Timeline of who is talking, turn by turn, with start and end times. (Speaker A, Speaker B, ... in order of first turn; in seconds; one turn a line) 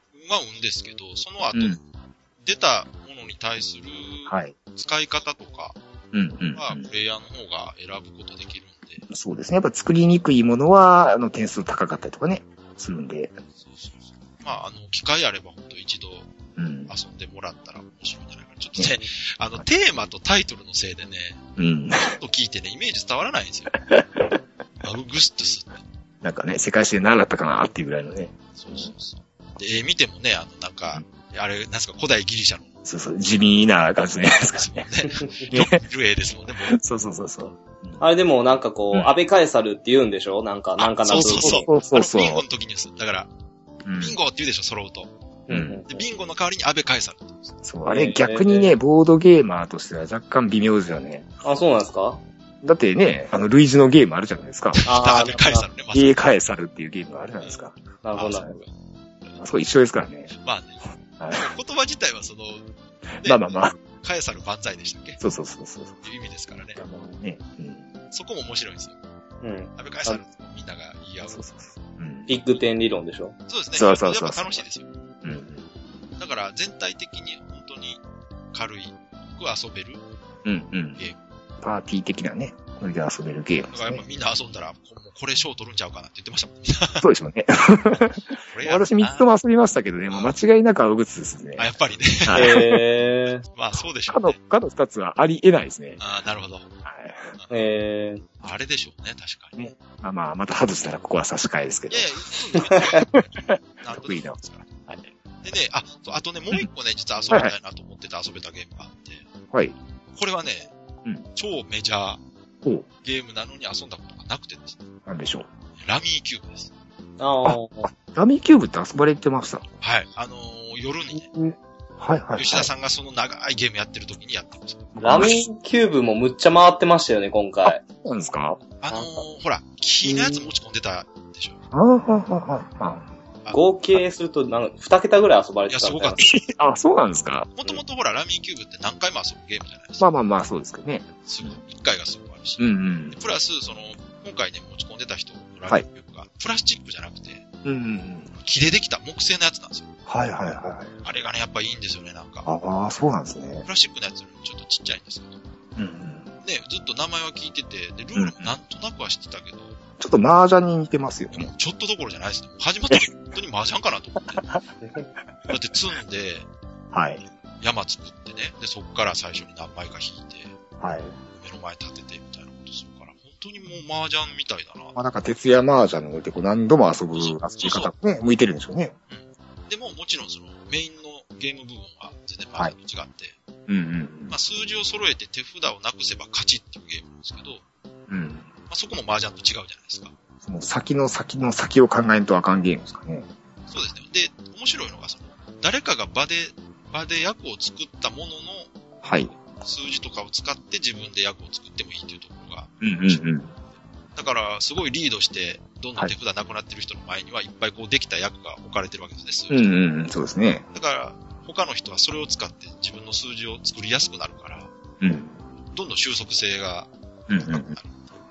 Speaker A: 0.1-1.8
Speaker B: 1.5-1.8
Speaker A: 2.4-5.8
Speaker B: 4.3-4.5
Speaker B: 6.1-6.8
Speaker A: 6.5-9.1
Speaker B: 9.1-13.3
Speaker A: 13.7-16.3
Speaker B: 16.6-16.9
Speaker A: 16.9-21.4
Speaker B: 21.6-22.2
Speaker A: 22.0-23.8
Speaker B: 23.9-24.4
Speaker A: 24.8-25.8
Speaker B: 26.2-28.9
Speaker A: 28.6-32.7
Speaker B: 32.9-34.9
Speaker A: 34.5-36.8
Speaker B: 35.5-35.8
Speaker B: 36.7-38.0
Speaker C: 38.0-41.7
Speaker A: 40.8-43.3
Speaker B: 41.1-42.5
Speaker B: 43.8-44.2
Speaker A: 44.0-45.1
Speaker C: 45.5-46.1
Speaker B: 45.5-45.8
Speaker A: 45.9-47.5
Speaker B: 47.6-51.3
Speaker C: 47.9-48.8
Speaker C: 51.4-52.2
Speaker B: 52.6-54.9
Speaker A: 54.8-56.3
Speaker C: 54.9-55.7
Speaker B: 55.9-57.8
Speaker C: 58.0-58.5
Speaker A: 58.2-58.7
Speaker B: 59.4-60.3
Speaker A: 60.4-60.8
Speaker B: 61.2-61.5
Speaker A: 61.3-62.6
Speaker A: 63.2-65.2
Speaker B: 63.2-63.8
Speaker B: 65.2-66.0
Speaker A: 66.0-66.8
Speaker B: 66.8-67.9
Speaker A: 68.1-69.0
Speaker C: 69.4-70.2
Speaker A: 69.8-71.6
Speaker B: 71.3-72.3
Speaker C: 72.3-73.3
Speaker A: 73.5-74.9
Speaker B: 73.8-74.7
Speaker B: 75.2-75.7
Speaker A: 76.2-78.0
Speaker A: 78.5-80.0
Speaker B: 80.5-81.0
Speaker B: 81.6-84.0
Speaker A: 83.7-87.1
Speaker B: 87.0-91.7
Speaker A: 88.5-89.3
Speaker A: 90.1-90.3
Speaker A: 91.6-92.6
Speaker B: 92.2-92.8
Speaker C: 92.3-93.4
Speaker A: 93.5-94.3
Speaker B: 94.1-96.0
Speaker A: 96.0-96.7
Speaker B: 96.8-97.3
Speaker C: 97.5-98.2
Speaker A: 98.4-99.7
Speaker B: 99.6-102.2
Speaker A: 101.9-104.7
Speaker B: 103.1-105.1
Speaker A: 105.4-109.2
Speaker A: 110.1-110.7
Speaker A: 111.4-112.2
Speaker A: 113.0-114.8
Speaker B: 115.1-115.5
Speaker A: 115.8-116.7
Speaker C: 117.2-117.9
Speaker B: 117.5-119.7
Speaker A: 119.8-121.3
Speaker B: 121.3-122.7
Speaker A: 122.3-125.3
Speaker B: 125.0-125.5
Speaker C: 125.0-127.8
Speaker B: 127.7-128.6
Speaker A: 128.8-131.6
Speaker B: 130.1-130.5
Speaker B: 131.7-133.1
Speaker C: 133.5-136.3
Speaker A: 135.7-136.4
Speaker B: 136.2-137.5
Speaker A: 137.6-140.1
Speaker B: 140.0-141.6
Speaker A: 141.3-147.4
Speaker B: 142.6-143.2
Speaker B: 147.7-148.3
Speaker A: 148.4-149.9
Speaker B: 150.1-151.0
Speaker A: 151.0-152.5
Speaker B: 152.5-153.7
Speaker A: 153.7-155.4
Speaker B: 155.8-156.3
Speaker A: 156.4-159.8
Speaker B: 158.2-158.5
Speaker B: 160.0-161.5
Speaker A: 161.3-164.5
Speaker A: 165.5-166.5
Speaker B: 166.9-167.2
Speaker A: 167.6-170.6
Speaker B: 170.8-171.2
Speaker A: 171.3-175.0
Speaker B: 174.9-178.9
Speaker A: 177.1-177.9
Speaker A: 179.1-183.3
Speaker B: 183.7-184.4
Speaker A: 184.3-187.6
Speaker B: 188.1-188.5
Speaker A: 188.7-190.1
Speaker B: 190.4-193.3
Speaker A: 193.7-198.7
Speaker B: 199.0-199.3
Speaker A: 199.6-203.2
Speaker B: 202.8-203.5
Speaker A: 204.2-209.7
Speaker B: 209.5-210.7
Speaker A: 210.7-214.7
Speaker B: 215.0-215.4
Speaker A: 215.7-218.1
Speaker B: 217.3-217.8